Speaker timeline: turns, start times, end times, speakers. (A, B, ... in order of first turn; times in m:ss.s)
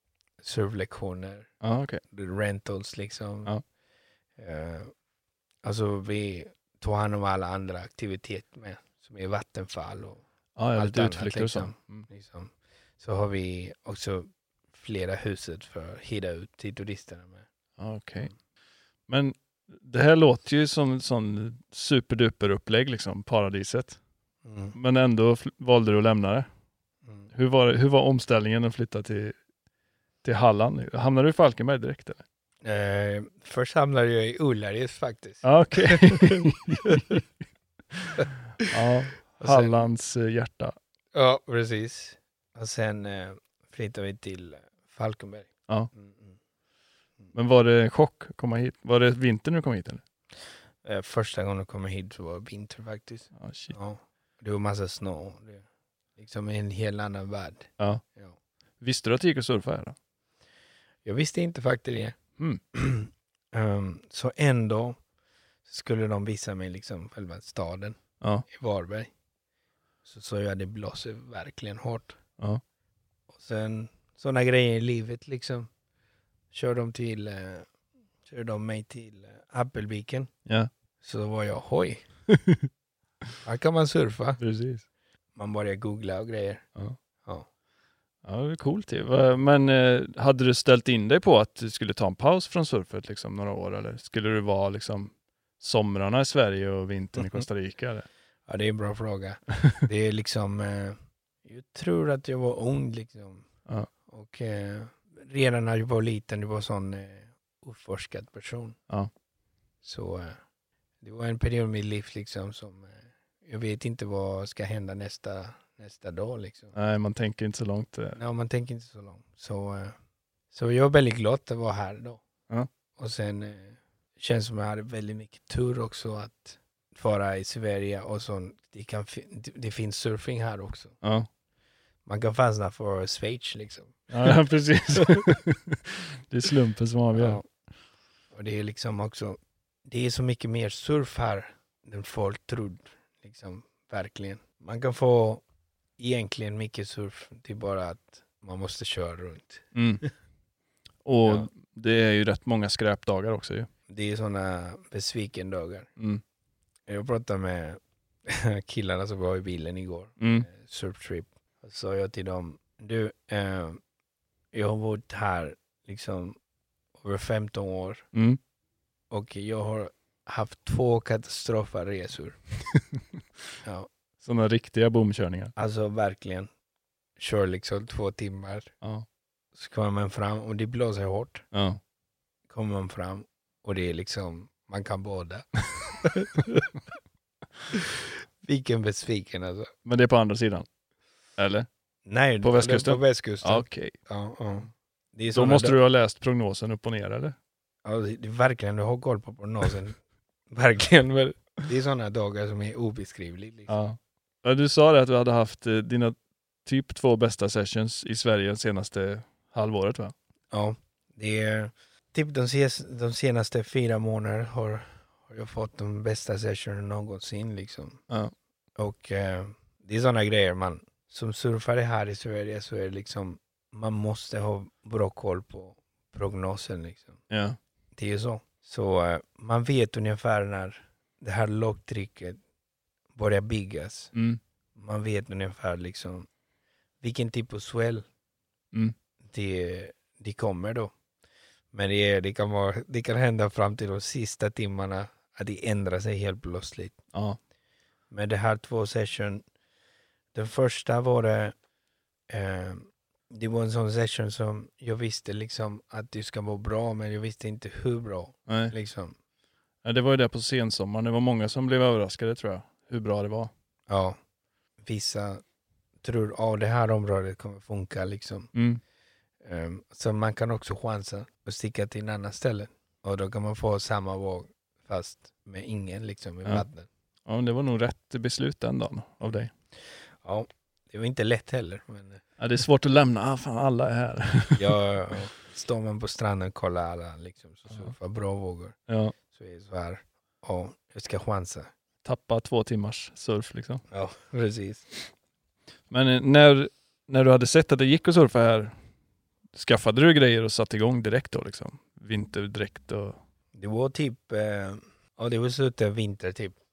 0:00.4-0:01.5 A
0:01.6-0:02.0 B
0:02.1-0:03.5 A
0:04.4-0:04.9 A
0:05.6-0:10.2 A
0:10.6-0:12.1 B
0:10.7-0:17.4 A
0:17.8-0:18.3 B
0:19.1-0:24.0 B
0:24.4-0:24.8 A
0:24.7-0:26.5 B
0:27.3-0:29.4 B
0:30.2-0:32.2 B
0:32.6-0:37.2 A
0:35.4-0:37.2 B
0:37.9-0:40.8 B
0:38.2-0:38.6 A
0:39.4-0:39.8 A
0:41.1-0:46.4 A
0:47.3-0:50.0 B
0:50.8-0:55.6 A
0:53.4-0:53.8 B
0:56.2-0:58.4 A
0:58.8-1:00.0 B
1:01.0-1:02.2 A
1:02.7-1:05.0 A
1:05.6-1:09.1 A
1:08.2-1:08.4 B
1:10.0-1:12.2 A
1:13.3-1:15.7 A
1:16.5-1:17.7 A
1:18.2-1:20.3 A
1:21.0-1:22.0 A
1:22.3-1:22.7 B
1:23.4-1:24.4 A
1:24.4-1:24.8 B
1:25.3-1:26.7 A
1:28.2-1:38.1 B
1:37.2-1:37.4 A
1:38.5-1:43.5 A
1:44.0-1:48.8 A
1:49.8-1:50.4 A
1:51.0-1:56.7 A
1:56.7-1:58.2 B
1:58.2-2:00.0 A
2:00.5-2:02.2 A
2:03.0-2:10.9 A
2:11.0-2:11.3 B
2:12.0-2:14.4 A
2:14.1-2:17.4 B
2:15.0-2:15.2 A
2:17.1-2:17.4 A
2:18.3-2:25.4 A
2:26.0-2:30.1 A
2:29.7-2:30.0 B
2:31.0-2:33.7 B
2:33.9-2:35.9 A
2:36.0-2:36.2 B
2:36.9-2:43.8 A
2:40.2-2:40.5 B
2:44.5-2:46.4 A
2:47.0-2:48.0 A
2:48.1-2:48.4 B
2:49.1-2:52.4 A
2:53.6-2:53.9 A
2:54.2-2:55.5 B
2:55.6-2:56.5 A
2:57.2-2:58.7 A
2:59.5-3:01.4 A
3:01.5-3:01.8 B
3:02.5-3:06.7 A
3:07.7-3:09.7 A
3:09.8-3:10.7 B
3:11.4-3:11.7 B
3:12.0-3:15.8 A
3:12.4-3:13.9 B
3:15.3-3:17.4 B
3:17.8-3:23.7 A
3:23.7-3:30.1 B
3:30.5-3:38.0 A
3:38.8-3:47.2 A
3:47.3-3:47.6 B
3:47.9-3:52.4 A
3:53.1-3:54.1 A
3:54.1-3:54.4 B
3:54.8-3:56.3 A
3:57.0-3:58.0 A
3:59.2-4:00.9 A
4:01.7-4:07.0 A
4:07.1-4:07.4 B
4:08.1-4:09.4 A
4:10.3-4:11.5 A
4:12.3-4:19.1 A
4:18.5-4:18.7 B
4:19.8-4:23.5 B
4:23.9-4:24.2 A
4:24.8-4:25.4 A
4:26.0-4:28.5 A
4:28.5-4:28.8 B
4:29.4-4:36.9 A
4:37.3-4:39.5 B
4:40.2-4:42.2 A
4:42.4-4:44.8 B
4:44.6-4:48.8 A
4:48.9-4:49.1 B
4:49.3-4:51.7 A
4:52.0-4:53.8 B
4:53.9-4:54.9 A
4:55.9-4:58.7 B
4:59.5-5:03.2 B
5:03.5-5:06.6 A